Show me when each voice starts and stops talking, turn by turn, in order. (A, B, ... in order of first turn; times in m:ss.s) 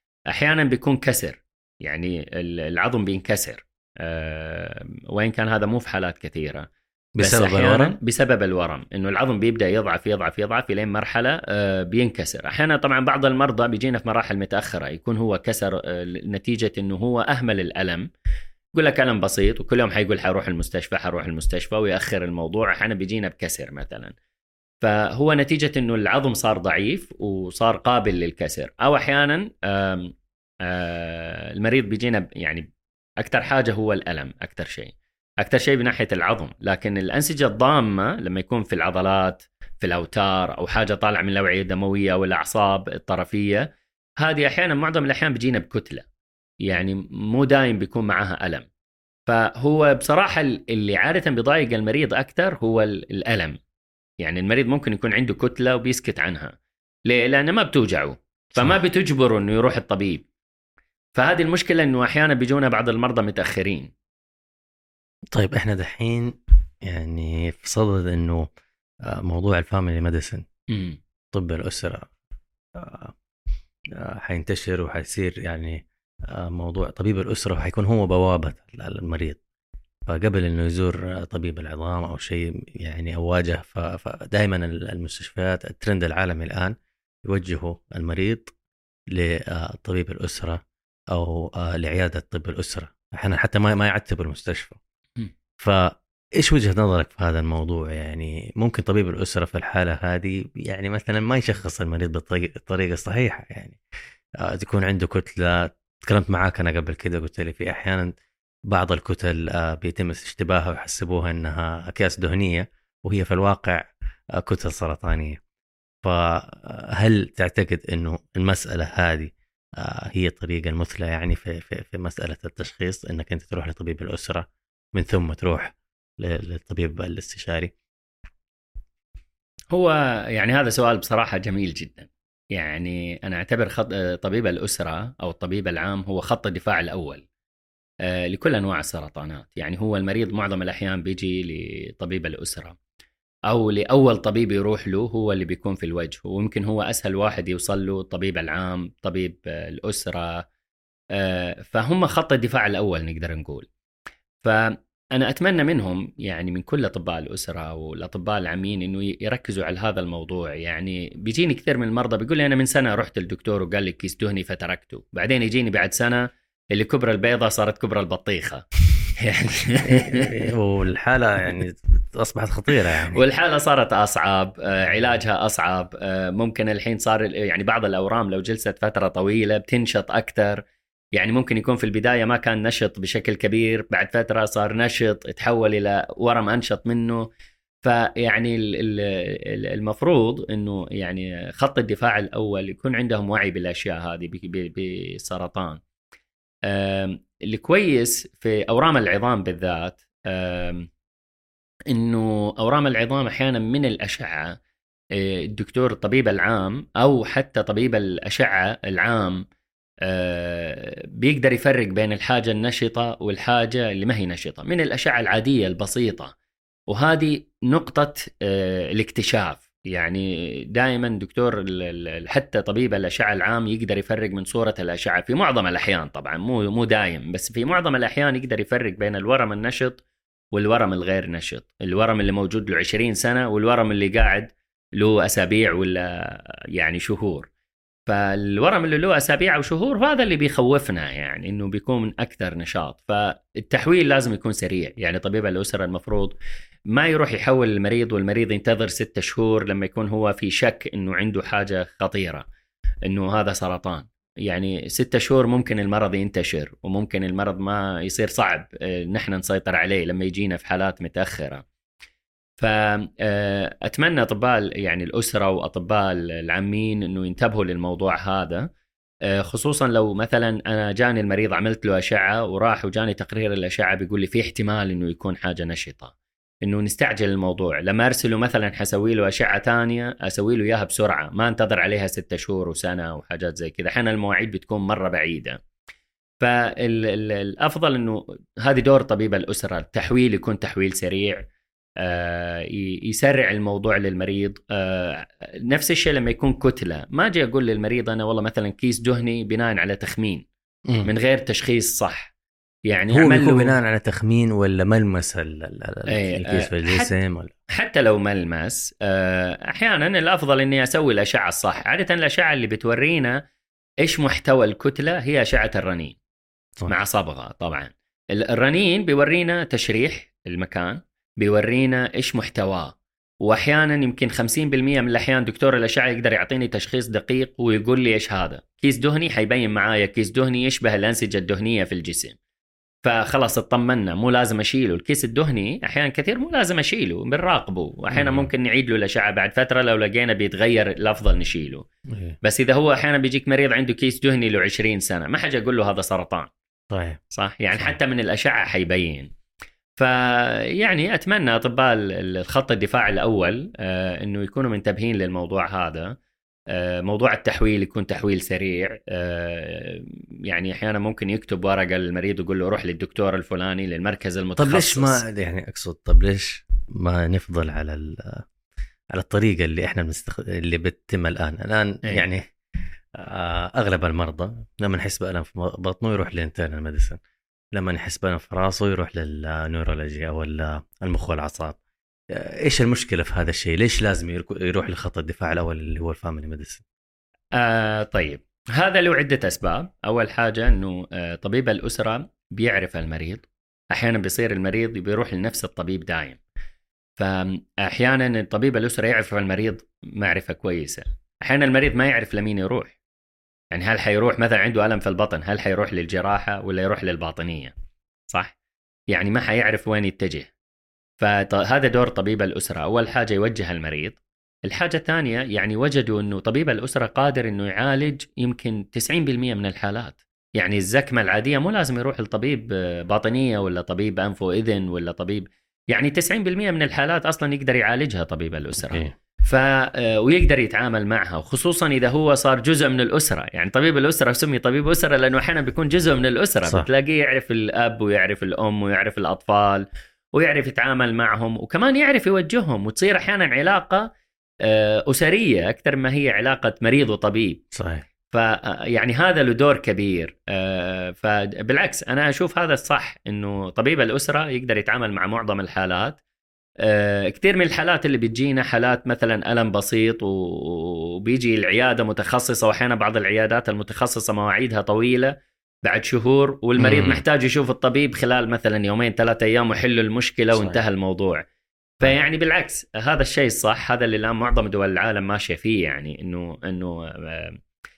0:00.3-0:06.7 A
0:07.2-0:08.0 B
0:07.2-0:18.0 A
0:18.7-0:24.1 A
0:24.8-0:30.1 A
0:30.6-0:32.7 A
0:33.2-0:43.7 A
0:44.2-0:46.0 A
0:46.7-0:48.7 A
0:49.3-0:53.6 A
0:54.2-0:56.5 A
0:57.0-1:00.2 A
1:01.1-1:03.9 A
1:05.3-1:08.5 B
1:09.0-1:10.4 B
1:10.7-1:11.0 A
1:11.3-1:12.1 B
1:12.7-1:13.1 B
1:14.0-1:19.4 B
1:20.1-1:28.5 B
1:29.1-1:34.8 B
1:35.6-1:43.8 B
1:44.4-1:48.2 B
1:48.7-1:55.4 B
1:56.0-2:07.7 B
2:09.7-2:17.2 A
2:18.0-2:22.8 A
2:23.5-2:30.5 A
2:31.1-2:33.7 A
2:34.4-2:48.6 A
2:49.2-2:50.3 A
2:49.9-2:53.2 B
2:53.1-3:00.6 A
3:01.1-3:07.3 A
3:07.8-3:15.8 A
3:16.7-3:20.9 A
3:21.9-3:24.6 A
3:25.2-3:29.4 A
3:30.0-3:36.3 A
3:36.9-3:50.0 A
3:50.5-3:57.5 A
3:58.1-4:06.4 A
4:06.9-4:12.4 A
4:13.0-4:21.6 A
4:22.6-4:28.7 A
4:29.3-4:45.6 A
4:46.4-4:51.4 A
4:52.0-5:00.4 A
5:01.0-5:02.3 A
5:02.9-5:03.8 A
5:03.1-5:07.5 B
5:06.1-5:07.1 A
5:07.7-5:13.4 A
5:14.0-5:16.2 A
5:16.9-5:32.4 A
5:33.0-5:41.8 A
5:38.1-5:38.5 B
5:42.1-5:42.4 B
5:42.4-5:46.5 A
5:46.9-5:47.2 B
5:47.3-5:49.3 A
5:50.0-5:56.2 A
5:56.7-6:05.2 A
6:04.6-6:08.4 B
6:09.1-6:12.5 B
6:13.2-6:17.2 B
6:17.7-6:21.8 B
6:22.3-6:26.8 B
6:27.6-6:36.4 A
6:37.2-6:42.9 A
6:43.7-6:47.7 A
6:49.1-6:50.5 A
6:51.2-7:24.1 A
7:08.8-7:09.1 B
7:24.6-7:27.6 A
7:27.7-7:28.0 B
7:28.3-7:36.2 A
7:36.8-7:45.3 A
7:45.8-7:51.4 A
7:46.8-7:47.2 B
7:50.5-7:50.8 B
7:52.0-7:57.6 A